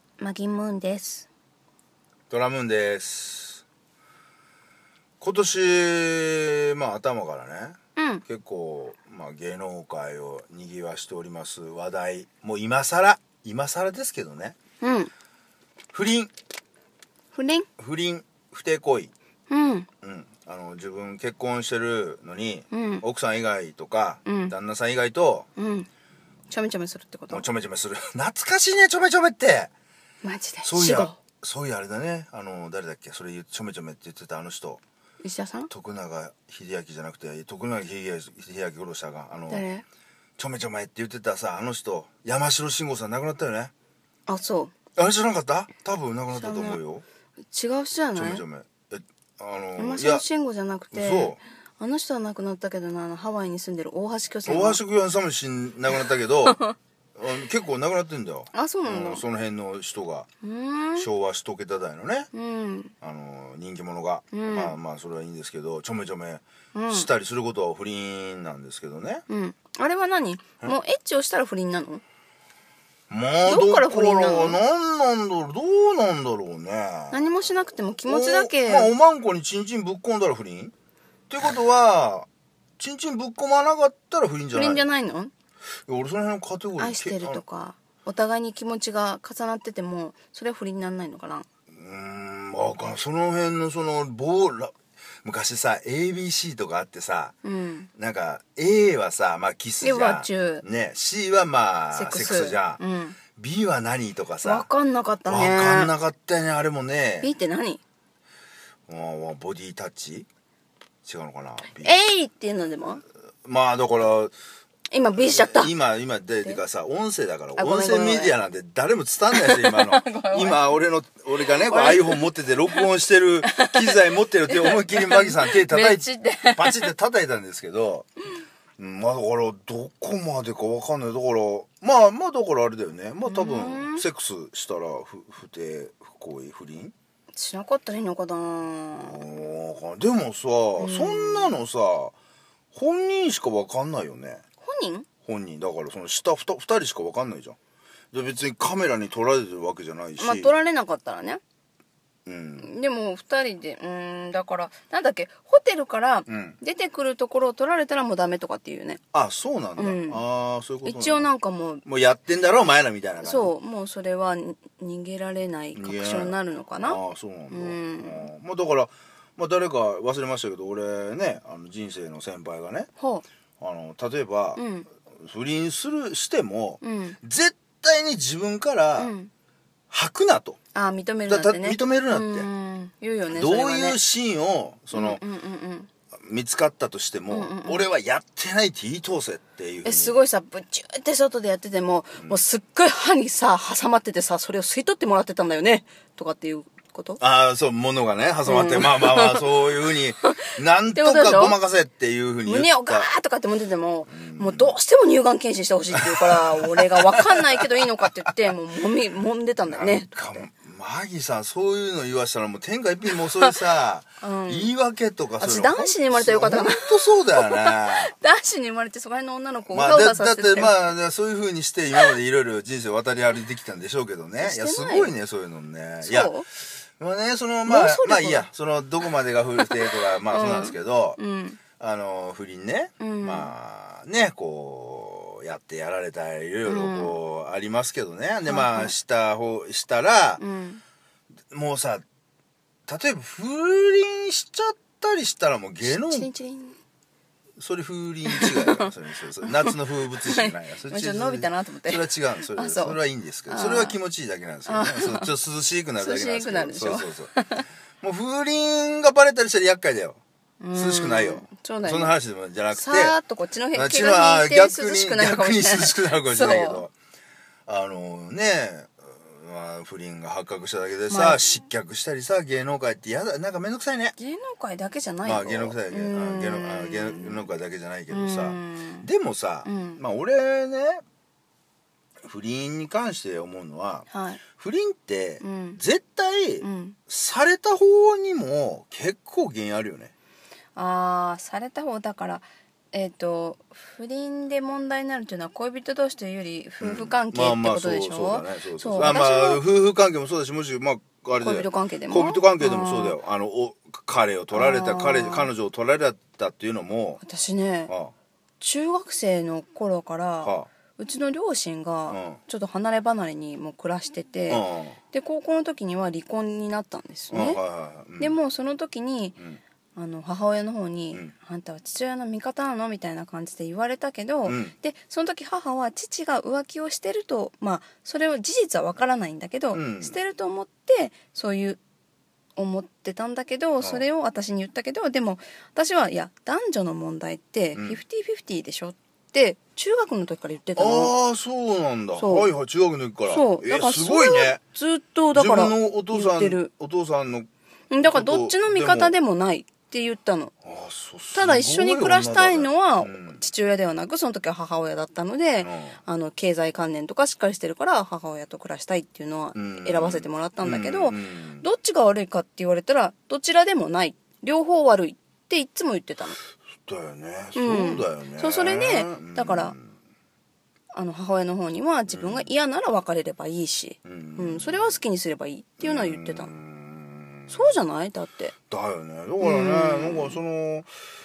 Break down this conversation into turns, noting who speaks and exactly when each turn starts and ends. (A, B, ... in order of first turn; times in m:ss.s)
0:00.2-0:01.3 A
0:02.3-0:03.6 B
0:05.2-0:14.6 B
0:08.0-0:08.2 A
0:14.8-0:15.1 A
0:15.9-0:16.3 B
0:17.3-0:17.7 A
0:17.8-0:19.1 B
0:19.5-0:19.9 A
0:20.0-0:25.5 B
0:22.7-0:23.0 A
0:24.3-0:24.5 A
0:25.6-0:25.9 A
0:26.5-0:27.5 A
0:27.3-0:29.7 B
0:30.2-0:31.2 A
0:30.6-0:34.8 B
0:35.2-0:35.7 A
0:35.7-0:39.7 B
0:39.5-0:39.8 A
0:40.4-0:43.7 B
0:44.3-0:44.7 A
0:45.0-0:47.0 B
0:46.3-0:46.8 A
0:47.5-0:48.4 A
0:48.2-0:50.2 B
0:49.8-0:54.8 A
0:50.9-0:51.4 B
0:54.4-0:56.6 B
0:56.0-0:56.7 A
0:57.2-1:00.3 B
0:58.5-0:59.2 A
1:00.4-1:01.1 A
1:01.0-1:02.3 B
1:02.3-1:02.9 A
1:03.0-1:09.2 B
1:04.3-1:04.8 A
1:06.7-1:07.1 A
1:09.3-1:12.0 A
1:13.1-1:17.2 B
1:13.5-1:14.6 A
1:17.1-1:19.0 A
1:18.1-1:20.7 B
1:21.3-1:22.3 B
1:22.8-1:24.8 B
1:24.5-1:25.3 A
1:25.9-1:27.4 B
1:26.8-1:31.5 A
1:31.7-1:37.3 B
1:37.4-1:37.9 A
1:38.0-1:42.8 B
1:39.8-1:40.6 A
1:41.9-1:43.2 A
1:43.4-1:44.7 B
1:44.4-1:45.9 A
1:45.3-1:47.3 B
1:47.2-1:47.8 A
1:48.9-1:50.3 B
1:51.0-1:52.0 B
1:51.8-1:53.0 A
1:53.4-1:54.3 B
1:54.9-1:55.7 A
1:55.2-2:08.1 B
1:57.6-1:58.4 A
1:59.3-2:00.8 A
2:01.5-2:02.9 A
2:03.4-2:03.9 A
2:04.5-2:06.9 A
2:08.8-2:16.9 B
2:13.2-2:14.0 A
2:17.3-2:19.2 A
2:19.0-2:22.2 B
2:20.8-2:21.6 A
2:22.7-2:24.4 B
2:24.6-2:25.1 A
2:25.3-2:27.6 B
2:28.1-2:30.5 B
2:30.2-2:31.4 A
2:32.3-2:32.7 B
2:32.6-2:39.0 A
2:36.3-2:36.6 B
2:39.1-2:41.3 B
2:39.8-2:40.2 A
2:40.8-2:41.8 A
2:41.8-2:43.5 B
2:43.2-2:48.3 A
2:45.7-2:52.9 B
2:53.0-2:53.2 A
2:53.6-2:54.6 B
2:54.6-2:54.9 A
2:55.2-2:59.1 B
2:56.8-2:57.2 A
2:59.0-2:59.3 A
2:59.9-3:00.6 B
3:00.7-3:04.0 A
3:01.3-3:02.5 B
3:03.3-3:05.2 B
3:04.9-3:05.9 A
3:06.1-3:10.2 B
3:07.3-3:07.8 A
3:09.8-3:17.2 A
3:17.2-3:23.1 B
3:18.5-3:21.6 A
3:22.4-3:30.5 A
3:24.1-3:24.7 B
3:26.0-3:27.6 B
3:29.7-3:38.1 B
3:34.2-3:34.7 A
3:35.4-3:40.9 A
3:39.7-3:46.4 B
3:44.4-3:45.1 A
3:46.0-3:46.5 A
3:47.0-3:51.2 B
3:47.7-3:48.5 A
3:49.6-3:51.6 A
3:51.8-4:00.4 B
3:53.0-3:53.5 A
3:56.7-3:57.2 A
3:58.5-3:58.9 A
4:00.4-4:00.8 A
4:01.5-4:02.0 B
4:02.9-4:06.3 B
4:05.8-4:06.8 A
4:07.6-4:17.4 B
4:08.3-4:08.9 A
4:09.4-4:14.0 A
4:14.7-4:15.3 A
4:16.0-4:17.6 A
4:18.0-4:20.2 B
4:20.6-4:22.2 A
4:20.7-4:23.2 B
4:22.7-4:26.9 A
4:23.7-4:26.9 B
4:27.7-4:34.2 B
4:31.1-4:31.5 A
4:34.2-4:37.5 A
4:35.2-4:41.0 B
4:38.1-4:39.1 A
4:39.6-4:40.0 A
4:42.2-4:50.1 B
4:44.1-4:44.4 A
4:45.4-4:45.8 A
4:46.6-4:47.0 A
4:50.8-4:59.6 A
4:56.8-5:07.2 B
5:01.4-5:03.2 A
5:04.5-5:05.5 A
5:07.2-5:07.9 A
5:07.9-5:08.1 B
5:08.6-5:17.6 A
5:10.4-5:10.7 B
5:12.1-5:12.4 B
5:14.5-5:15.0 B
5:17.3-5:18.4 B
5:18.2-5:19.4 A
5:20.0-5:31.8 A
5:24.5-5:24.7 B
5:29.7-5:30.2 B
5:32.6-5:41.1 A
5:37.8-5:38.0 B
5:40.8-5:44.6 B
5:42.2-5:42.5 A
5:43.3-5:46.7 A
5:45.3-5:47.5 B
5:47.9-5:50.5 A
5:48.0-5:49.1 B
5:50.6-5:53.4 B
5:51.3-6:06.4 A
5:55.6-5:56.0 B
5:59.6-6:01.7 B
6:06.9-6:09.9 B
6:07.6-6:09.8 A
6:10.9-6:16.5 A
6:12.1-6:12.5 B
6:14.0-6:14.9 B
6:15.8-6:17.7 B
6:17.5-6:18.5 A
6:18.7-6:20.9 B
6:19.4-6:20.4 A